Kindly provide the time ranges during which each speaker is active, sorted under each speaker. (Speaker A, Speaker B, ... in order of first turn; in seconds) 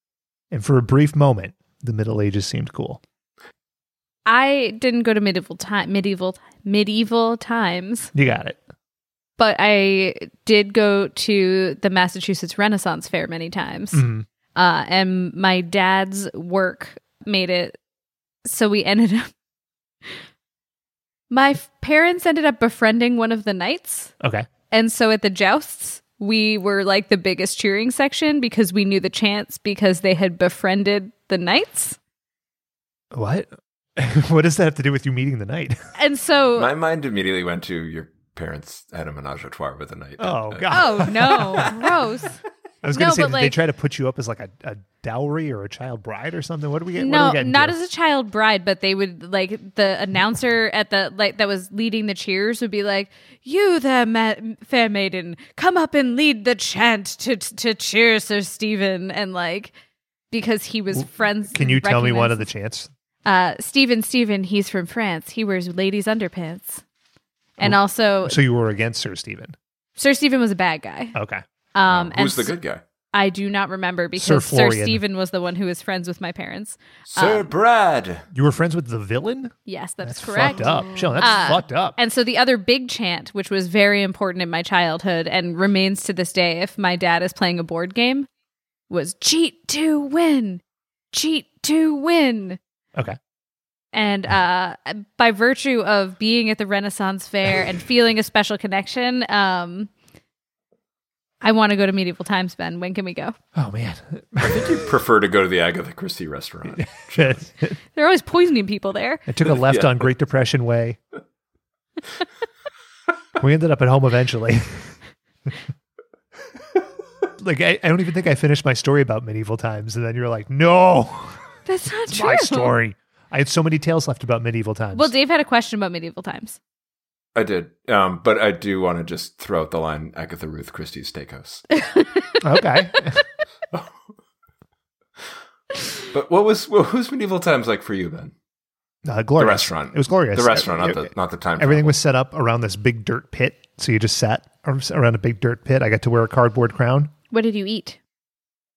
Speaker A: 0.5-3.0, 8.1-8.6, 13.9-14.2, 24.2-24.5, 33.1-35.8, 40.2-41.7, 42.8-47.8, 60.9-62.9, 67.6-69.5, 71.1-71.4, 74.2-75.0, 78.3-82.0, 103.5-104.9, 106.8-107.8, 109.3-111.0, 113.4-114.9, 117.4-121.4, 122.1-125.1, 132.4-133.2, 139.0-147.1
Speaker B: 4.2-8.1, 9.4-17.8, 18.4-19.3, 21.3-24.1, 24.7-32.0, 36.0-36.7, 40.7-42.4, 42.9-43.6, 47.0-59.7, 60.3-62.5, 63.2-66.8, 67.6-68.4, 70.0-71.2, 71.7-72.5, 73.1-77.5, 79.7-88.3, 88.9-92.6, 93.9-99.9, 101.4-103.3, 107.9-109.2, 121.7-122.7, 124.9-126.6, 131.8-132.4, 147.3-148.0
Speaker C: 36.6-41.7, 71.9-72.8, 77.1-78.2, 104.4-107.4, 109.5-110.0, 127.3-131.7, 136.1-138.3, 139.4-142.0